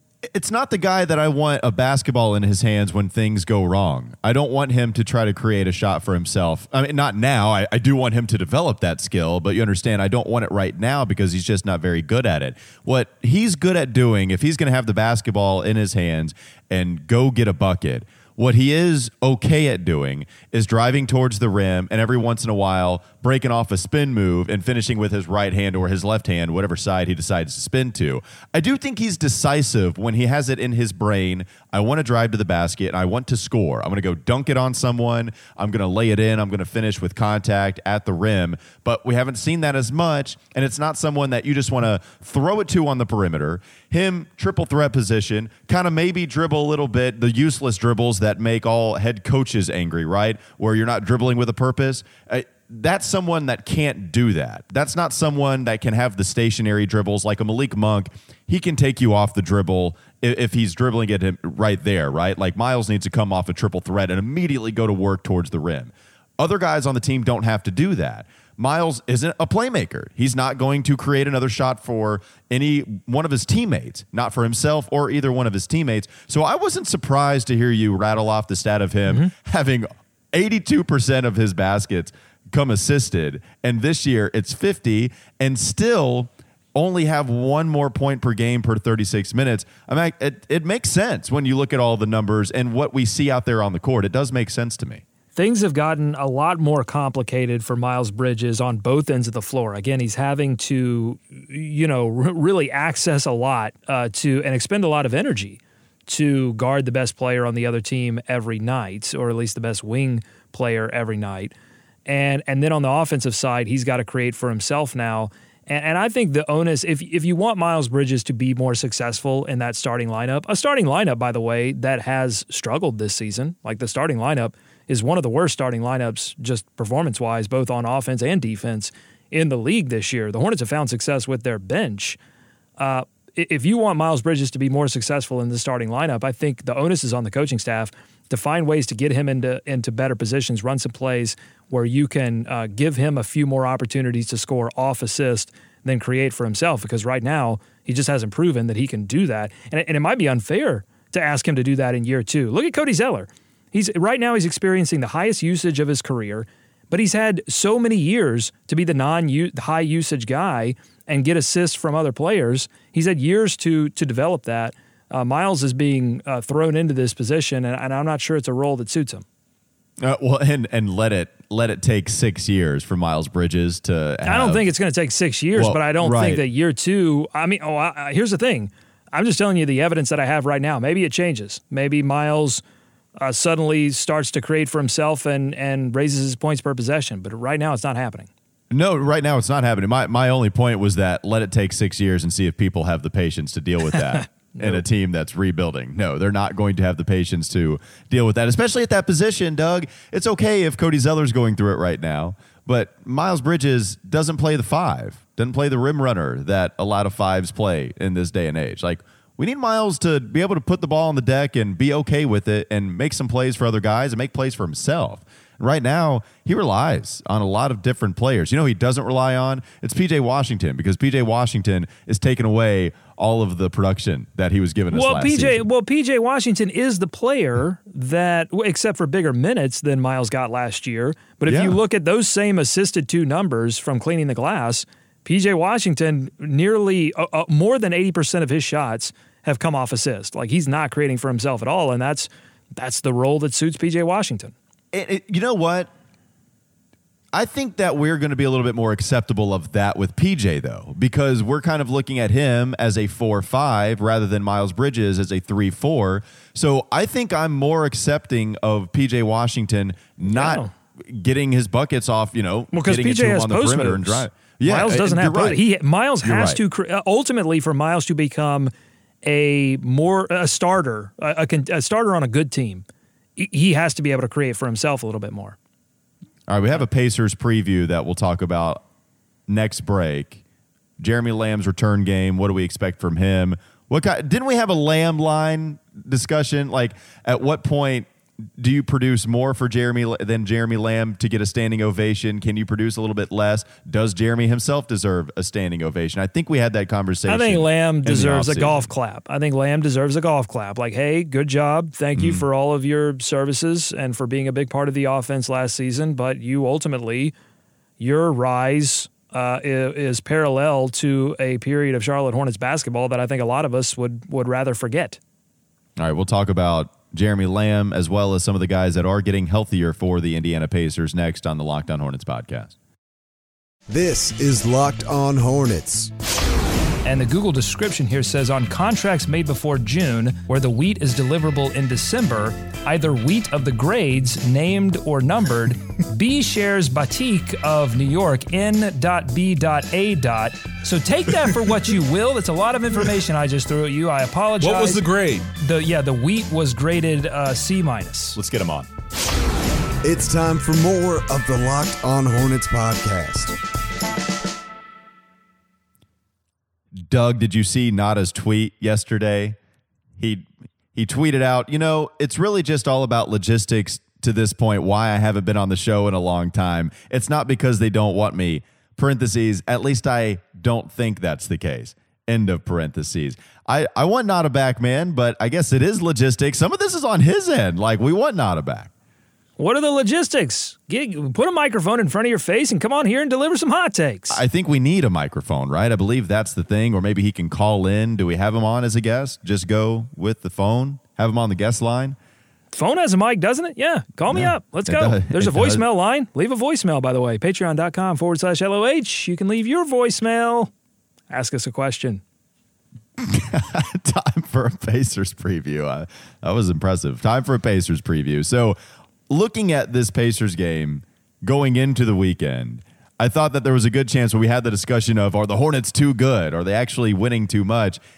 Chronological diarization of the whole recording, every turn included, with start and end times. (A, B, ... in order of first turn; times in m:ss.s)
0:00.3-1:35.0 A
1:35.3-1:51.5 B
1:52.0-2:12.2 B
2:12.8-2:49.2 B
2:50.0-2:54.6 A
2:54.2-3:02.6 B
2:55.5-2:56.4 A
3:03.2-3:08.3 B
3:08.7-3:45.6 A
3:14.6-3:14.8 B
3:44.9-4:04.5 B
3:51.4-3:51.8 A
4:04.9-4:05.9 A
4:07.3-4:25.6 A
4:20.3-4:20.7 B
4:22.7-4:28.7 B
4:26.2-4:26.6 A
4:29.2-4:32.8 B
4:33.4-4:35.6 B
4:36.5-4:38.8 A
4:39.5-4:40.4 A
4:41.0-4:58.9 A
4:57.3-5:07.3 B
5:02.2-5:02.4 A
5:08.0-5:15.2 B
5:16.0-5:22.7 A
5:23.9-5:26.1 C
5:27.0-5:48.4 B
5:44.7-5:45.4 A
5:48.4-5:48.9 A
5:50.0-5:53.6 C
5:57.0-5:59.6 A
6:00.2-6:18.9 A
6:19.6-6:24.4 B
6:24.3-6:32.2 A
6:32.7-6:40.7 B
6:34.3-6:35.8 A
6:41.3-6:42.2 B
6:43.2-6:48.8 A
6:49.3-6:58.0 A